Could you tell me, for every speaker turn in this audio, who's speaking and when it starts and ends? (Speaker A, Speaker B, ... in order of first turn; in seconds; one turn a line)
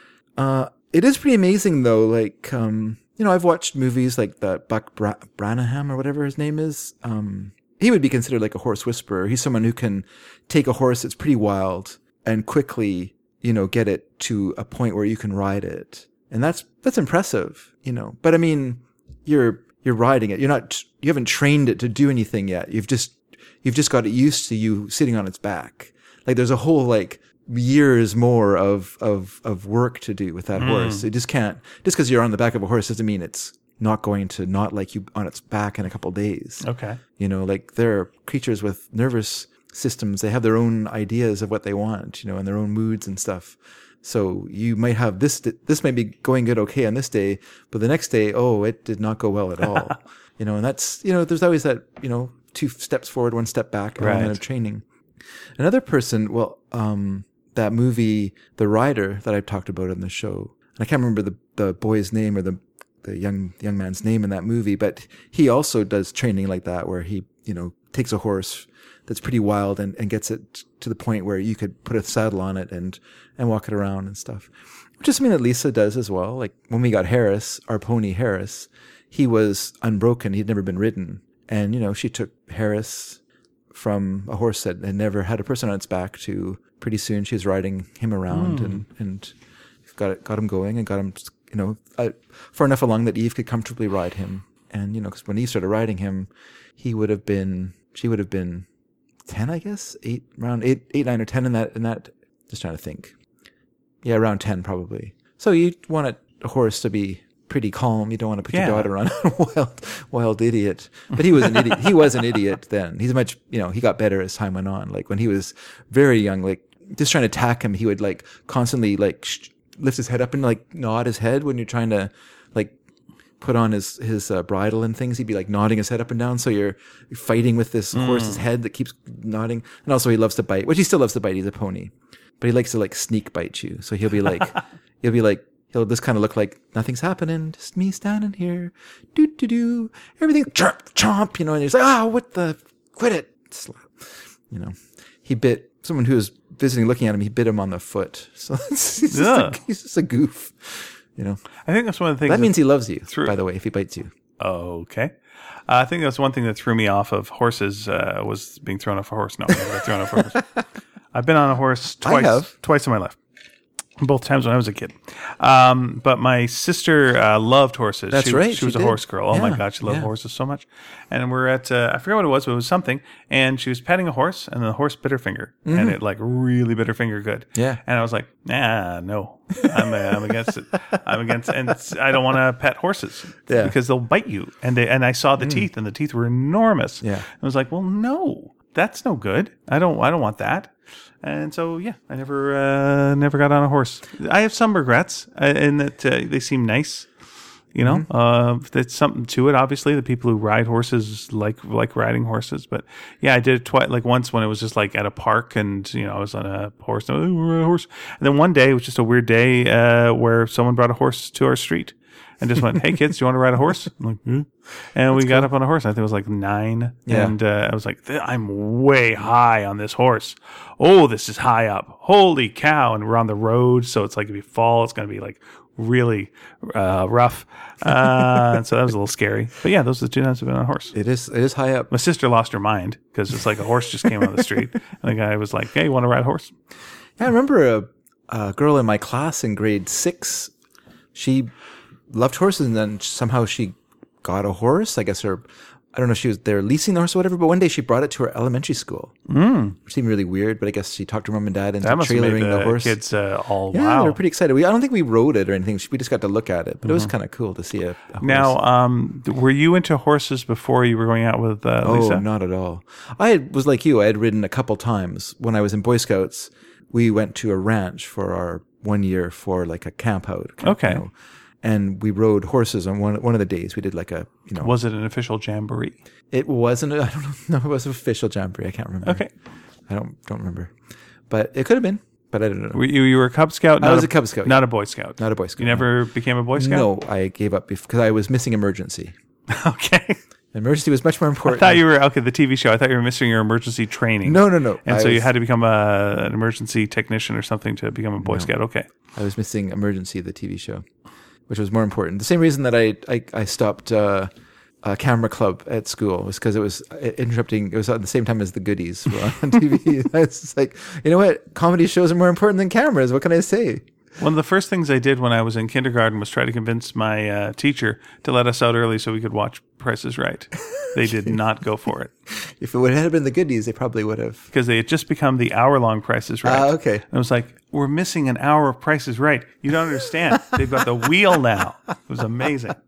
Speaker A: 0.4-36.6
Speaker B: 30.6-31.1
Speaker B: 36.6-37.0
Speaker A: 37.2-54.8
Speaker B: 54.0-54.4
Speaker A: 55.6-83.2
Speaker A: 83.7-89.3
Speaker B: 88.3-88.8
Speaker A: 89.9-98.7
Speaker A: 99.3-103.1
Speaker A: 104.0-122.8
Speaker B: 108.5-108.9
Speaker A: 123.4-151.4
Speaker B: 127.9-128.4
Speaker B: 149.1-149.6
Speaker B: 151.7-153.4
Speaker A: 152.3-154.1
Speaker B: 154.4-155.2
Speaker B: 155.7-160.4
Speaker A: 160.2-160.4
Speaker B: 161.1-163.2
Speaker A: 162.0-162.5
Speaker B: 164.0-197.1
Speaker A: 168.1-170.1
Speaker A: 175.7-176.0
Speaker A: 179.7-180.2
Speaker A: 183.5-183.8
Speaker A: 185.4-185.7
Speaker B: 197.7-230.9
Speaker A: 215.1-215.5
Speaker A: 217.1-217.3
Speaker A: 230.9-231.9
Speaker B: 231.9-236.5
Speaker A: 237.2-240.5
Speaker A: 241.1-241.5
Speaker A: 242.1-249.1
Speaker B: 249.3-249.8
Speaker A: 249.8-253.0
Speaker B: 251.8-254.2
Speaker A: 253.7-258.5
Speaker B: 256.8-257.1
Speaker B: 258.2-262.2
Speaker A: 261.8-274.8
Speaker B: 270.6-271.0
Speaker B: 274.6-276.0
Speaker A: 276.3-279.2
Speaker B: 279.0-279.3
Speaker A: 279.9-280.7
Speaker A: 281.3-282.8
Speaker B: 282.7-286.9
Speaker A: 283.8-284.6
Speaker A: 285.2-285.9
Speaker A: 286.6-289.1
Speaker B: 289.5-290.2
Speaker A: 290.5-291.8
Speaker B: 291.4-298.9
Speaker A: 294.2-295.3
Speaker A: 298.2-298.5
Speaker A: 299.1-300.9
Speaker A: 301.5-304.3
Speaker A: 304.8-313.9
Speaker B: 314.2-322.1
Speaker A: 321.0-321.4
Speaker A: 322.4-324.5
Speaker B: 324.5-332.8
Speaker A: 326.4-327.0